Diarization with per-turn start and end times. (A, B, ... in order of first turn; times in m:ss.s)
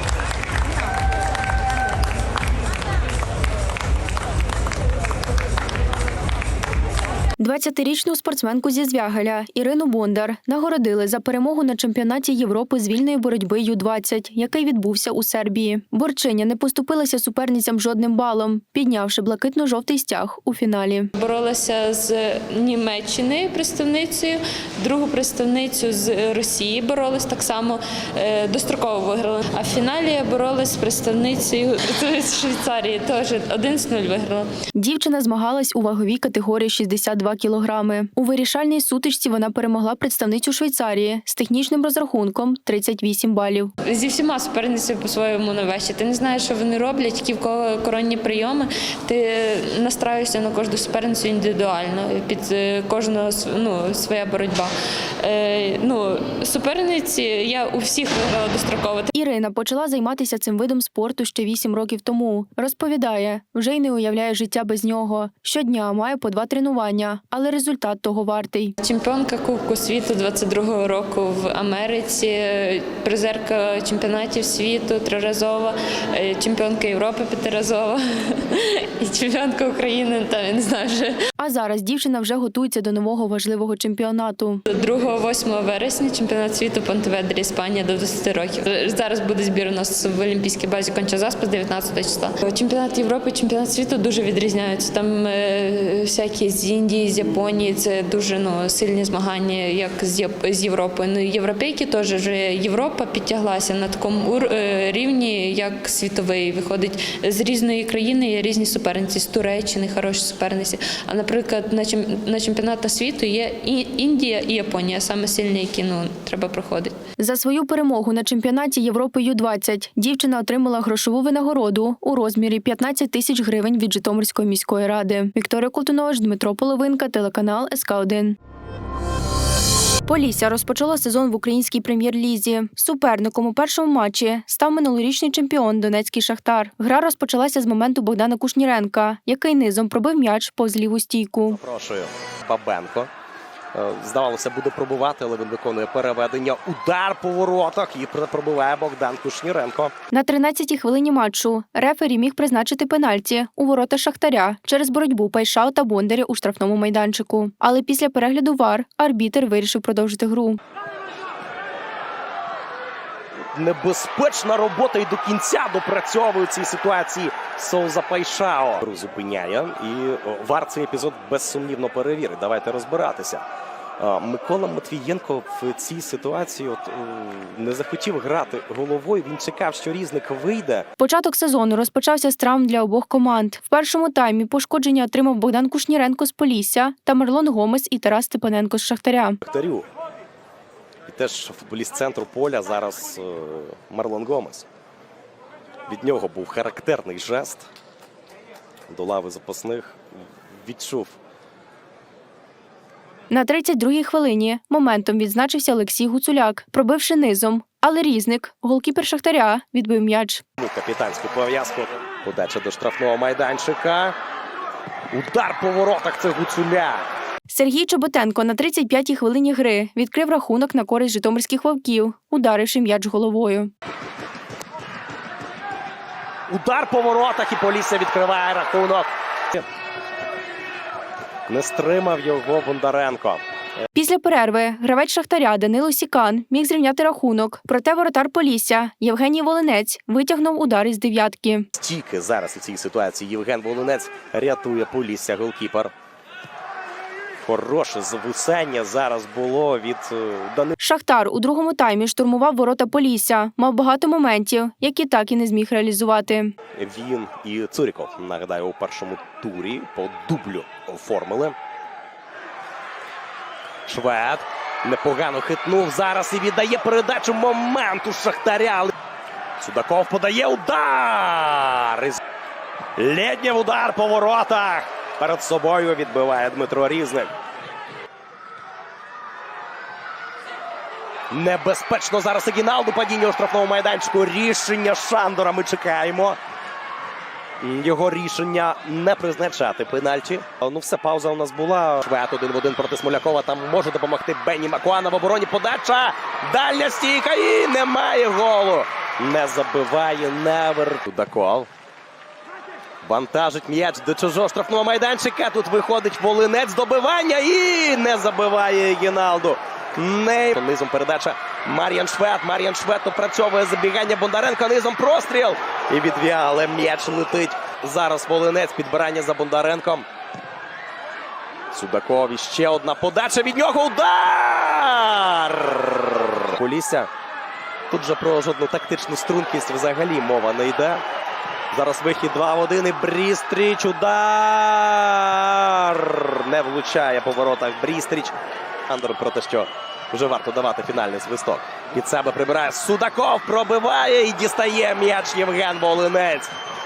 0:07.4-0:21.1 A
0:21.2-0:34.5 B
0:34.7-0:43.7 A
0:43.9-0:59.1 B
0:59.1-1:08.8 A
1:08.8-1:21.2 B
1:21.4-1:24.6 A
1:24.7-1:56.9 B
1:57.2-2:08.4 A
2:10.1-2:21.6 A
2:21.5-2:23.1 C
2:23.7-2:29.9 C
2:30.1-2:40.6 A
2:43.6-2:53.4 C
2:54.0-3:00.9 C
3:01.0-3:09.4 A
3:09.4-3:09.9 C
3:11.1-3:14.6 C
3:15.9-3:17.6 C
3:18.9-3:20.0 C
3:20.5-3:21.2 C
3:23.3-3:30.4 A
3:30.6-3:34.2 C
3:35.1-3:37.1 C
3:37.5-3:43.7 A
3:46.5-3:49.6 C
3:51.5-3:53.4 C
3:53.9-4:01.7 A
4:01.8-4:05.9 C
4:07.4-4:10.7 C
4:10.8-4:16.5 A
4:16.8-4:21.6 C
4:23.9-4:28.9 C
4:29.6-4:32.2 C
4:33.0-4:37.3 C
4:41.3-4:46.4 C
4:47.6-5:01.7 C
5:03.0-5:20.1 C
5:21.7-5:27.1 C
5:27.9-5:31.0 C
5:31.7-5:38.4 C
5:38.9-5:46.5 C